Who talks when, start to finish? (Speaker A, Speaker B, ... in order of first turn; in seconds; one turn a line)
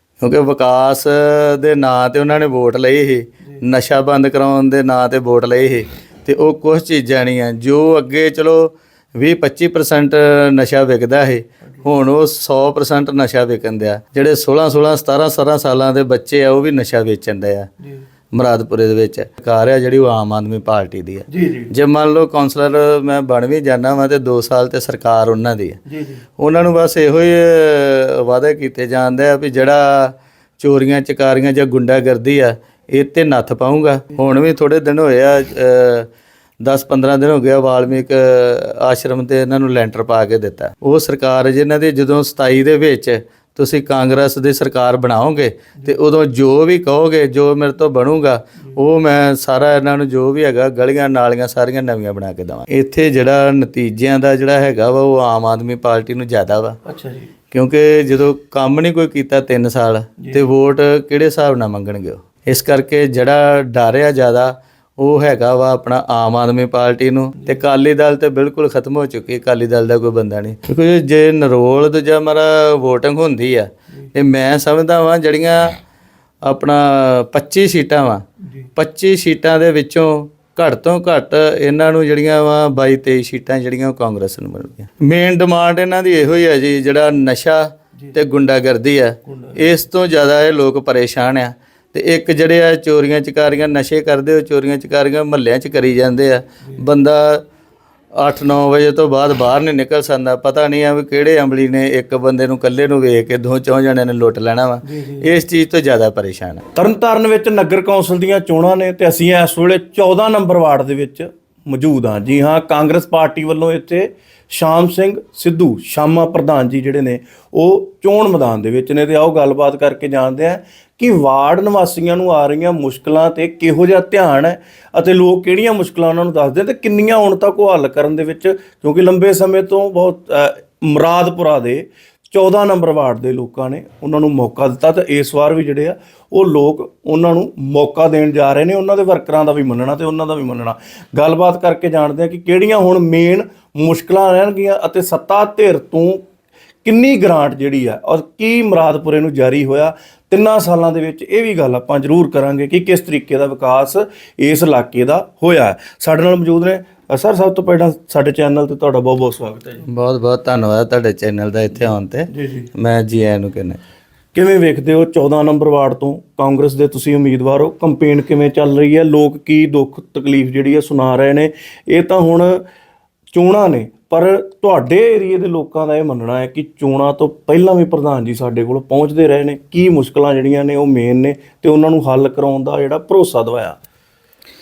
Speaker A: 0.2-17.7
Speaker A: 18.3-25.8
Speaker B: 21.3-21.7
Speaker B: 25.9-26.2
Speaker A: 26.4-36.1
Speaker A: 36.6-56.8
Speaker B: 56.9-57.3
Speaker A: 57.5-75.8
Speaker A: 76.5-78.2
Speaker A: 78.8-97.4
Speaker B: 89.2-89.7
Speaker A: 98.2-106.6
Speaker B: 104.8-105.3
Speaker B: 106.7-146.2
Speaker B: 146.8-159.8
Speaker A: 159.9-163.8
Speaker B: 162.3-162.7
Speaker B: 164.3-172.6
Speaker B: 173.3-183.8